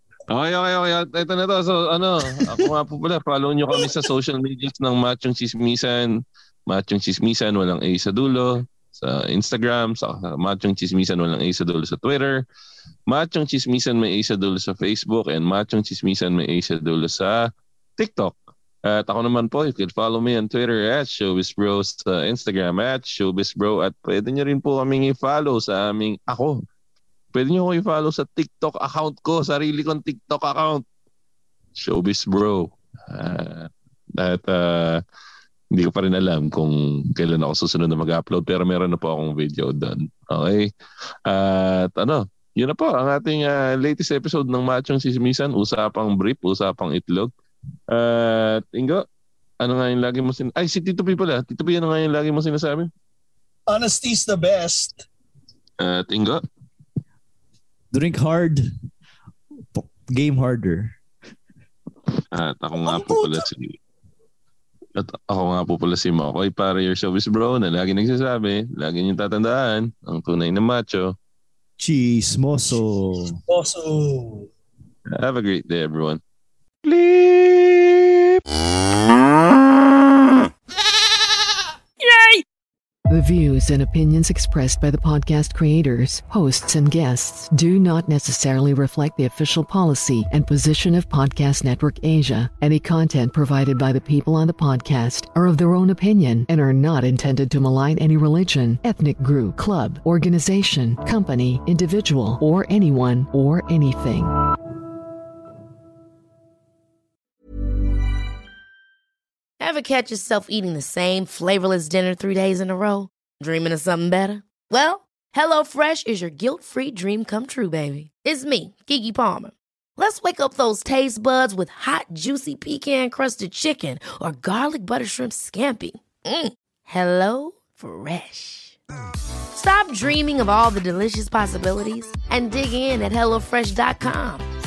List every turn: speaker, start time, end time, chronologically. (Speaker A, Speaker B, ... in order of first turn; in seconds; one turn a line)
Speaker A: 0.3-6.2
Speaker A: 6.7-12.4
Speaker A: 13.1-17.4
Speaker A: 18.0-18.4
Speaker A: 18.9-26.6
Speaker A: 27.3-30.8
Speaker A: 31.8-35.0
Speaker A: 35.7-40.7
Speaker A: 41.2-47.3
Speaker A: 47.9-49.0
Speaker A: 49.6-52.9
Speaker B: 53.7-55.0
Speaker A: 55.8-56.4
Speaker C: 57.9-58.6
Speaker C: 59.7-60.9
Speaker A: 62.3-63.8
Speaker B: 62.8-63.4
Speaker A: 65.0-71.1
Speaker C: 71.8-73.4
Speaker B: 73.5-74.5
Speaker A: 75.1-76.2
Speaker A: 76.8-78.1
Speaker D: 83.1-104.3
Speaker E: 109.6-128.8
Speaker E: 129.5-134.4